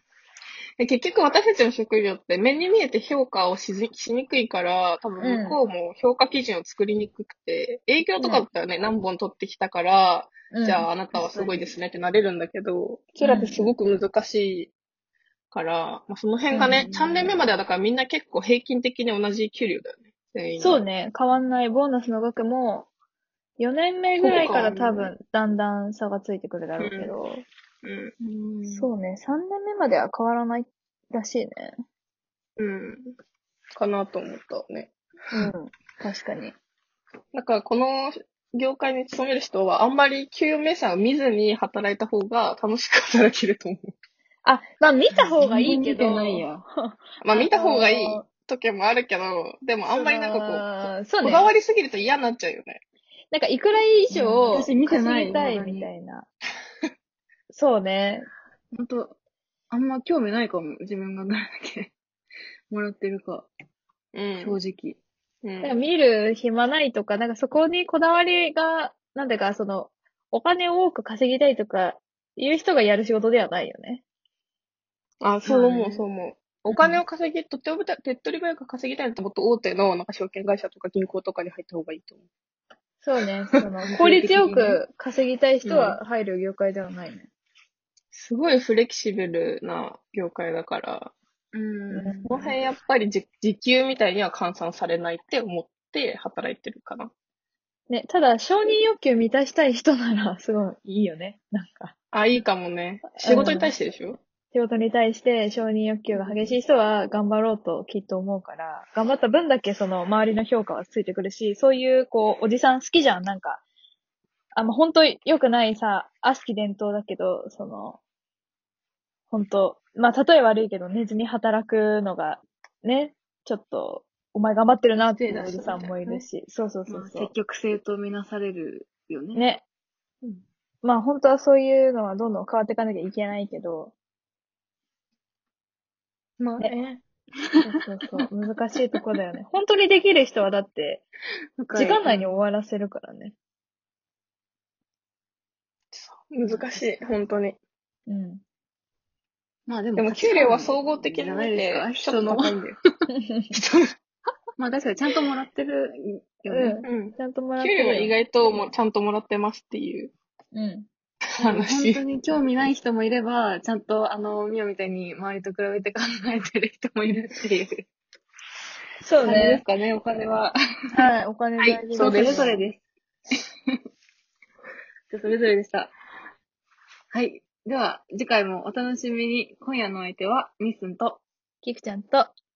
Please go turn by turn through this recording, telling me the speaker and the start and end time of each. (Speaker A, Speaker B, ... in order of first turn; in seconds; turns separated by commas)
Speaker A: 0.8-14.7, Speaker B: 5.2-5.6, Speaker B: 8.2-8.5, Speaker B: 10.5-10.9, Speaker C: 11.1-11.7, Speaker B: 13.2-13.7, Speaker A: 15.5-20.8, Speaker C: 16.5-17.4, Speaker B: 20.6-22.9, Speaker B: 23.6-27.4, Speaker A: 24.2-25.1, Speaker A: 26.8-27.1, Speaker A: 27.8-28.1, Speaker C: 28.2-28.9, Speaker B: 28.7-31.8, Speaker A: 32.6-33.1, Speaker A: 33.8-34.9, Speaker B: 35.3-36.6, Speaker A: 37.3-43.9, Speaker B: 44.4-48.2, Speaker C: 45.1-46.6, Speaker A: 47.2-52.8, Speaker B: 49.8-51.5, Speaker B: 53.3-56.3, Speaker C: 54.1-55.9, Speaker B: 57.5-58.3, Speaker C: 58.7-59.2, Speaker C: 59.7-61.9, Speaker C: 62.7-63.5, Speaker A: 64.1-64.6, Speaker C: 64.4-65.0, Speaker A: 65.4-65.8, Speaker B: 65.6-74.0, Speaker A: 75.2-82.3, Speaker B: 75.5-76.0, Speaker B: 83.0-87.3, Speaker C: 83.9-84.8, Speaker A: 85.6-86.0, Speaker A: 88.1-91.1, Speaker C: 91.5-92.5, Speaker A: 92.2-97.1, Speaker B: 97.9-101.9, Speaker A: 102.1-104.2, Speaker B: 103.1-103.7, Speaker C: 103.3-103.6, Speaker B: 104.5-113.6, Speaker C: 106.1-106.5, Speaker B: 114.5-118.0, Speaker B: 119.3-127.3, Speaker C: 125.2-126.2, Speaker C: 126.9-129.5, Speaker B: 129.3-129.6, Speaker B: 130.8-133.9, Speaker C: 136.4-136.8, Speaker B: 136.6-137.0, Speaker B: 137.6-141.0, Speaker C: 141.6-142.3, Speaker B: 141.7-143.3, Speaker A: 145.9-147.6, Speaker B: 148.1-148.4, Speaker C: 149.7-152.6, Speaker A: 150.0-152.8, Speaker B: 153.2-153.5, Speaker C: 154.6-156.8, Speaker B: 156.5-158.2, Speaker A: 156.8-160.1, Speaker B: 160.5-160.9, Speaker C: 161.4-167.9, Speaker A: 161.4-162.0, Speaker B: 169.0-169.6, Speaker C: 169.2-170.5, Speaker B: 170.9-172.7, Speaker C: 171.6-172.8, Speaker A: 171.9-172.6, Speaker C: 175.1-175.9, Speaker C: 177.1-181.2, Speaker B: 181.6-182.3